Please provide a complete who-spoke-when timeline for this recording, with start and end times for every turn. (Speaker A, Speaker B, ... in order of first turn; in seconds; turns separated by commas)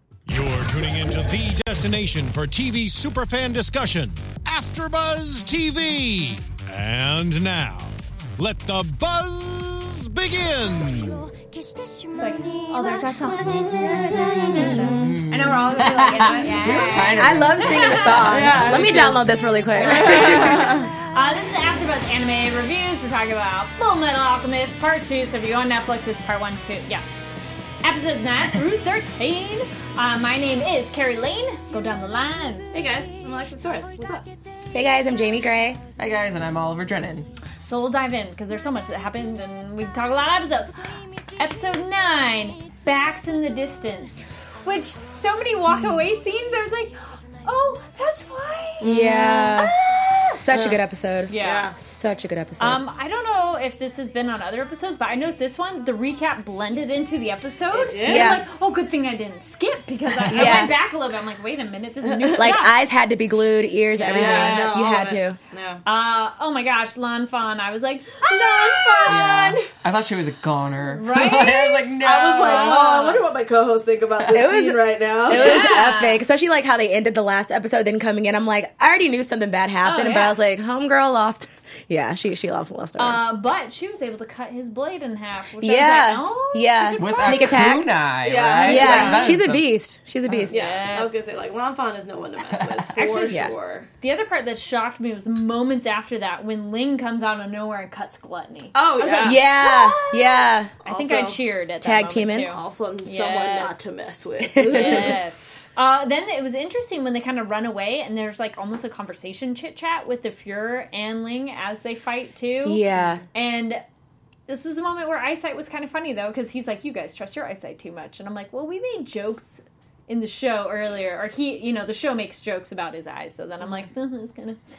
Speaker A: 0.2-11.2, Speaker B: 12.1-18.9, Speaker C: 13.9-15.0, Speaker D: 14.4-15.1, Speaker E: 14.8-17.9, Speaker C: 16.9-20.8, Speaker D: 18.2-20.9, Speaker B: 19.7-27.1, Speaker B: 27.8-32.7, Speaker D: 32.7-34.2, Speaker C: 34.7-35.8, Speaker E: 36.0-37.3, Speaker B: 37.6-51.7, Speaker D: 48.8-49.6, Speaker C: 48.8-49.8, Speaker C: 50.3-52.8, Speaker D: 50.5-50.8, Speaker D: 51.3-51.8, Speaker B: 52.6-62.8, Speaker D: 57.7-58.4, Speaker C: 58.0-58.4, Speaker E: 60.2-60.7, Speaker C: 60.3-60.8, Speaker D: 62.1-62.4, Speaker C: 62.4-65.4, Speaker B: 64.0-64.9, Speaker D: 64.0-65.8, Speaker B: 65.8-69.2, Speaker D: 68.2-69.7, Speaker E: 69.0-73.1, Speaker B: 70.9-73.2, Speaker D: 72.0-75.8, Speaker C: 74.3-83.2, Speaker B: 75.3-76.2, Speaker B: 79.8-80.4, Speaker B: 83.0-87.7, Speaker C: 85.6-87.9, Speaker E: 87.0-89.7, Speaker D: 87.1-87.6, Speaker D: 88.2-89.4, Speaker C: 88.6-90.5, Speaker B: 88.7-89.3, Speaker D: 90.3-93.9, Speaker B: 90.5-91.1, Speaker E: 92.5-92.8, Speaker B: 92.9-103.8, Speaker D: 98.7-99.9, Speaker C: 99.2-100.7, Speaker D: 100.8-101.4, Speaker C: 101.8-102.5, Speaker D: 102.4-105.2, Speaker C: 104.5-105.1, Speaker B: 104.6-113.8, Speaker C: 112.7-113.2, Speaker B: 114.5-124.6